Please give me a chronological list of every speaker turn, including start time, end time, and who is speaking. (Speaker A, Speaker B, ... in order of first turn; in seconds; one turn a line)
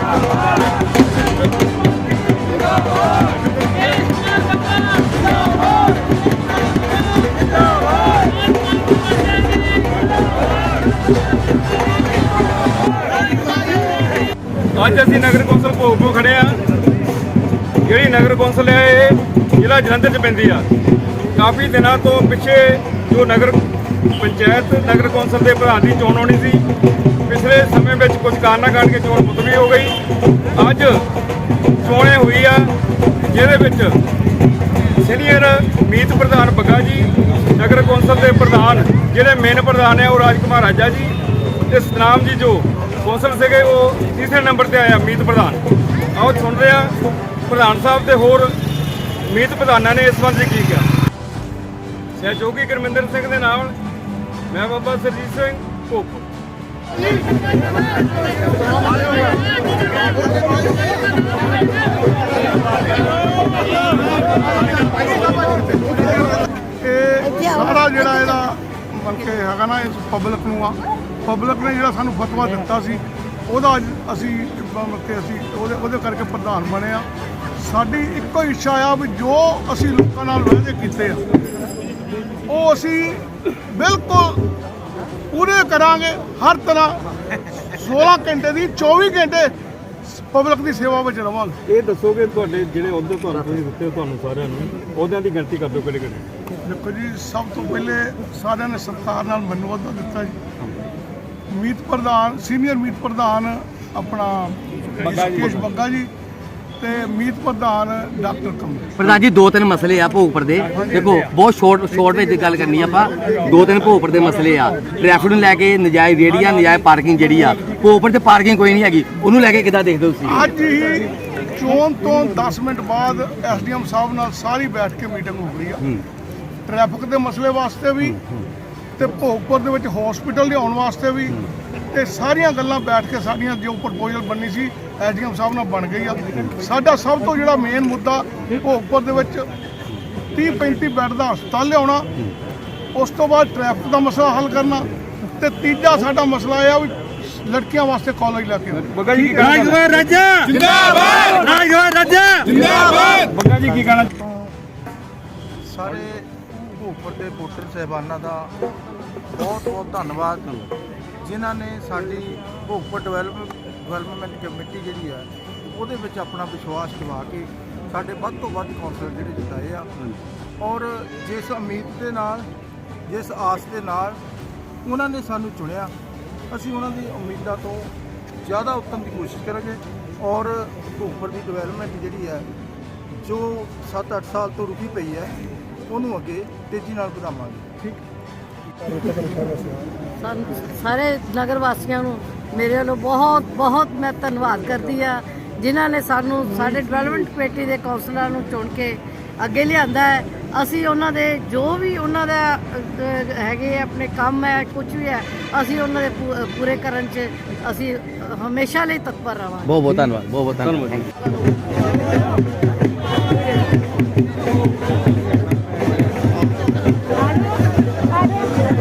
Speaker A: 14.7-16.6
Speaker A: 17.9-20.7
Speaker A: 21.4-23.6
Speaker A: 24.2-26.6
Speaker A: 27.3-30.0
Speaker A: 30.6-31.1
Speaker A: 31.8-32.7
Speaker A: 33.3-34.0
Speaker A: 35.0-41.2
Speaker A: 41.7-48.6
Speaker A: 49.2-50.9
Speaker A: 52.2-53.8
Speaker A: 54.5-56.3
Speaker B: 64.8-81.2
Speaker B: 82.5-84.4
Speaker B: 85.3-87.0
Speaker B: 87.6-89.5
Speaker B: 90.0-91.6
Speaker A: 91.7-96.3
Speaker B: 96.6-100.4
Speaker B: 101.5-106.1
Speaker A: 105.1-105.5
Speaker B: 106.8-109.0
Speaker C: 109.0-120.5
Speaker B: 120.2-125.9
Speaker B: 126.7-128.2
Speaker B: 129.0-139.5
Speaker B: 140.3-142.1
Speaker B: 142.9-149.8
Speaker A: 148.8-154.1
Speaker D: 153.8-154.5
Speaker D: 155.7-158.6
Speaker D: 159.3-160.5
Speaker D: 161.2-169.9
Speaker D: 170.6-172.5
Speaker D: 173.1-174.2
Speaker D: 174.8-175.9
Speaker D: 176.5-177.9
Speaker D: 178.4-182.5
Speaker D: 183.1-187.7
Speaker E: 190.2-209.8
Speaker C: 209.7-211.1